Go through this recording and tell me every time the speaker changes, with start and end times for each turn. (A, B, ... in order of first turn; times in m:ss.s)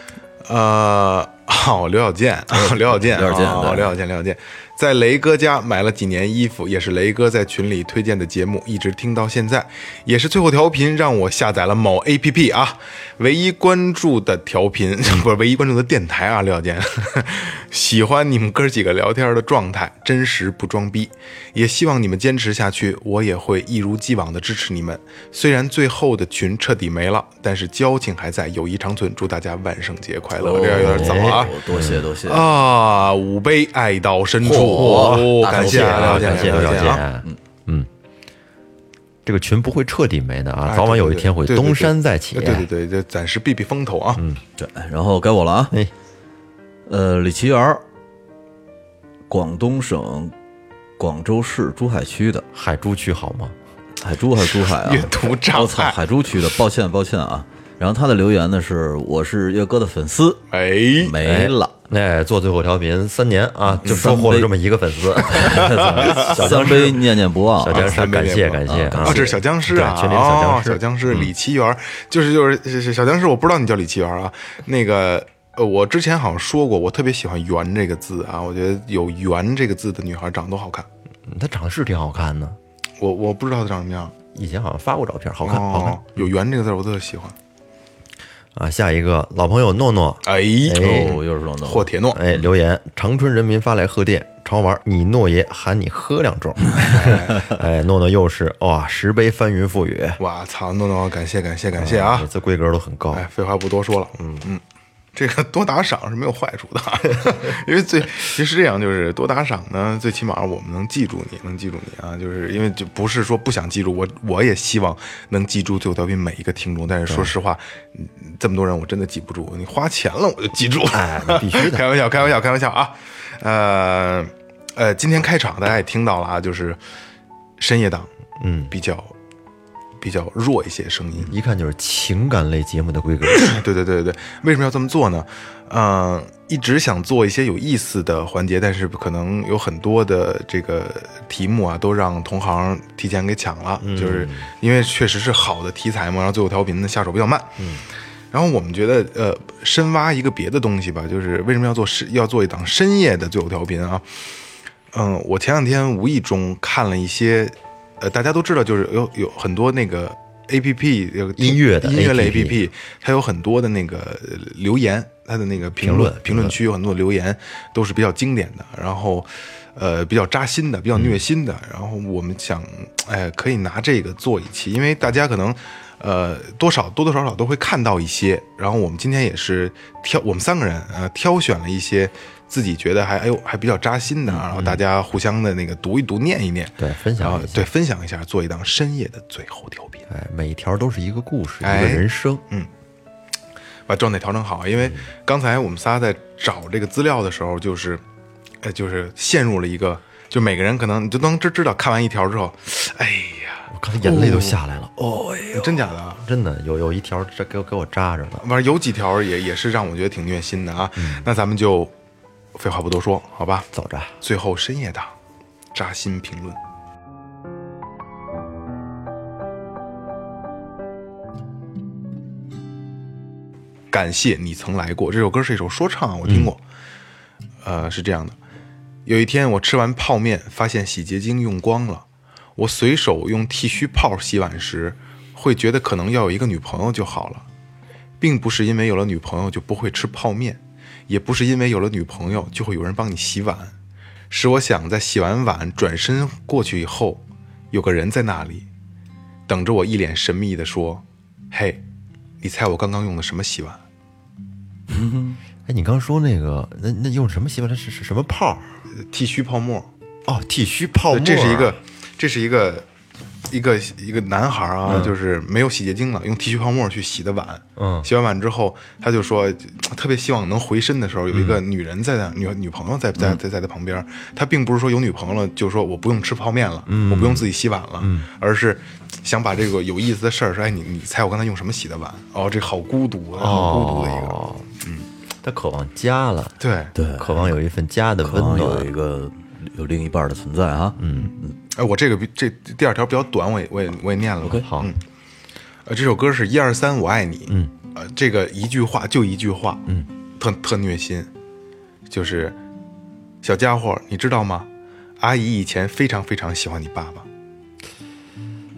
0:00.4-0:31.6 A
0:02.5-0:03.9 B
0:30.4-0:32.6 B
0:30.8-0:32.1 C
0:32.2-0:37.0 A
0:34.4-0:37.4 B
0:34.5-0:37.9 C
0:39.2-0:42.7 C
0:40.7-0:44.2 A
0:44.2-0:44.4 C
0:44.6-0:45.8 B
0:46.8-0:47.8 B
0:49.3-0:50.3 B
0:51.0-0:52.5 B
0:52.5-0:53.6 C
0:54.0-1:00.4 B
0:54.5-0:56.0 A
1:00.5-1:01.2 A
1:01.0-1:01.7 B
1:01.2-1:07.1 C
1:03.8-1:04.5 B
1:05.2-1:08.0 B
1:05.6-1:06.4 A
1:07.6-1:11.3 C
1:07.6-1:20.9 A
1:08.6-1:09.4 B
1:21.2-1:22.6 C
1:23.0-1:24.2 A
1:24.3-1:26.2 C
1:25.4-1:27.3 A
1:28.6-1:31.2 C
1:30.2-1:32.2 A
1:30.8-1:31.9 B
1:32.1-1:40.2 C
1:36.8-1:37.5 A
1:40.2-1:42.3 A
1:41.7-1:43.2 C
1:43.1-1:44.6 A
1:44.2-1:44.5 C
1:45.2-2:06.8 A
2:00.9-2:01.8 C
2:07.6-2:08.1 A
2:08.4-2:08.7 C
2:08.7-2:09.1 A
2:10.0-2:11.4 A
2:11.3-2:13.5 C
2:13.4-2:27.6 A
2:23.8-2:24.5 C
2:27.6-2:27.8 C
2:28.3-3:10.0 A
2:41.4-2:42.6 C
2:45.8-2:46.6 C
2:51.0-2:51.2 C
3:04.3-3:04.8 C
3:06.8-3:07.7 C
3:10.1-3:12.4 C
3:11.6-3:12.7 A
3:13.9-3:18.0 A
3:18.6-3:26.2 A
3:23.7-3:24.9 C
3:26.2-3:28.5 C
3:28.4-3:31.9 A
3:31.0-3:31.3 C
3:32.5-3:33.7 A
3:33.7-3:34.1 C
3:34.2-3:35.1 A
3:35.7-3:36.6 A
3:43.9-3:46.6 A
3:46.2-3:46.5 C
3:47.6-3:48.4 A
3:49.0-3:52.0 A
3:52.6-3:57.5 A
3:58.2-4:03.7 A
4:04.3-4:08.7 A
4:09.5-4:11.8 A
4:12.4-4:13.8 A
4:14.9-4:15.4 B
4:15.7-4:18.8 C
4:19.0-4:19.9 A
4:20.2-4:21.8 C
4:21.1-4:22.9 A
4:23.5-4:45.1 A
4:24.8-4:25.1 C
4:27.8-4:28.1 C
4:31.3-4:31.6 C
4:36.9-4:37.5 C
4:38.0-4:38.3 C
4:43.4-4:44.7 C
4:45.4-4:46.6 C
4:46.6-4:47.0 A
4:47.0-4:47.4 B
4:47.2-4:48.9 C
4:48.2-4:51.6 B
4:51.0-4:51.3 C
4:51.7-4:55.0 A
4:54.4-4:54.7 B
4:54.7-4:54.9 C
4:55.9-4:59.9 A
5:00.4-5:01.3 A
5:02.1-5:02.6 A
5:03.4-5:07.3 A